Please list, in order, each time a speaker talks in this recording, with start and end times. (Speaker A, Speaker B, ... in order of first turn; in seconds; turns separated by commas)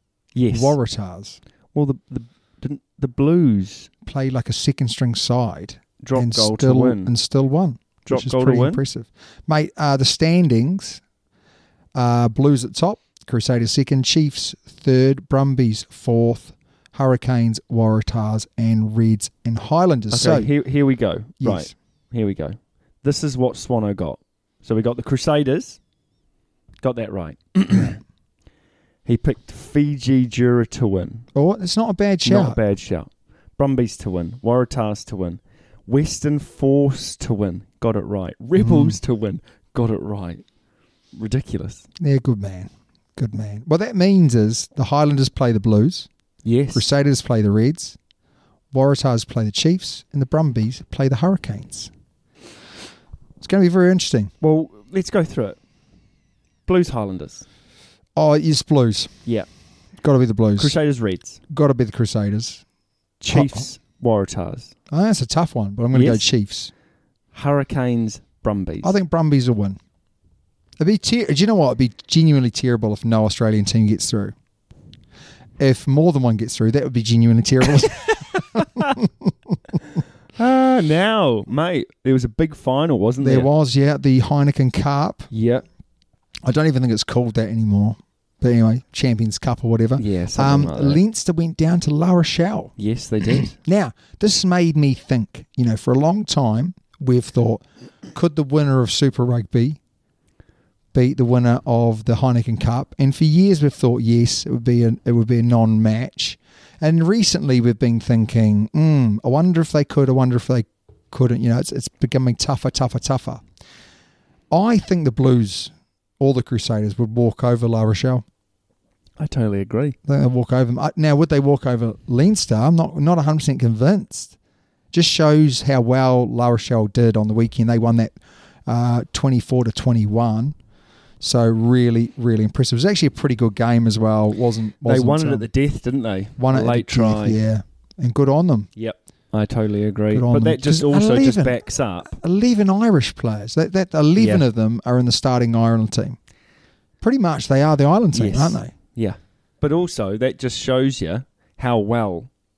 Speaker A: 0.3-0.8, Speaker B: 0.5-1.4, Speaker A: 1.7-3.9, Speaker B: 4.0-11.0, Speaker A: 6.0-7.1, Speaker A: 8.1-8.8, Speaker B: 11.9-20.5, Speaker A: 20.1-25.8, Speaker B: 21.4-21.7, Speaker A: 26.8-28.0, Speaker A: 29.1-31.2, Speaker B: 31.3-32.6, Speaker A: 32.2-40.4, Speaker B: 38.5-39.0, Speaker A: 41.1-41.9, Speaker B: 42.0-46.1, Speaker A: 46.4-46.8, Speaker B: 46.7-48.0, Speaker B: 48.7-51.9, Speaker B: 53.4-54.3, Speaker A: 54.4-55.6, Speaker A: 56.7-57.4, Speaker B: 58.1-59.1, Speaker B: 60.0-60.8, Speaker A: 60.6-61.4, Speaker B: 61.5-62.6, Speaker A: 63.2-64.7, Speaker B: 63.3-63.6, Speaker B: 64.9-66.7, Speaker A: 65.9-66.3, Speaker A: 67.3-68.9, Speaker B: 68.8-69.8, Speaker B: 70.8-74.3, Speaker B: 75.6-79.6, Speaker A: 78.0-78.9, Speaker A: 80.4-83.5, Speaker B: 83.2-85.3, Speaker A: 85.3-85.6, Speaker B: 86.4-92.7, Speaker A: 90.0-91.0, Speaker A: 92.8-93.5, Speaker B: 93.3-99.8, Speaker B: 100.9-113.4, Speaker B: 114.5-118.2, Speaker A: 119.2-120.0, Speaker B: 120.0-124.3, Speaker B: 124.9-128.2, Speaker B: 128.7-130.6, Speaker B: 131.2-135.5, Speaker A: 134.8-137.4, Speaker B: 136.4-138.7, Speaker A: 138.8-142.1, Speaker B: 140.1-146.2, Speaker A: 144.2-144.4, Speaker B: 147.0-148.7, Speaker A: 148.1-152.3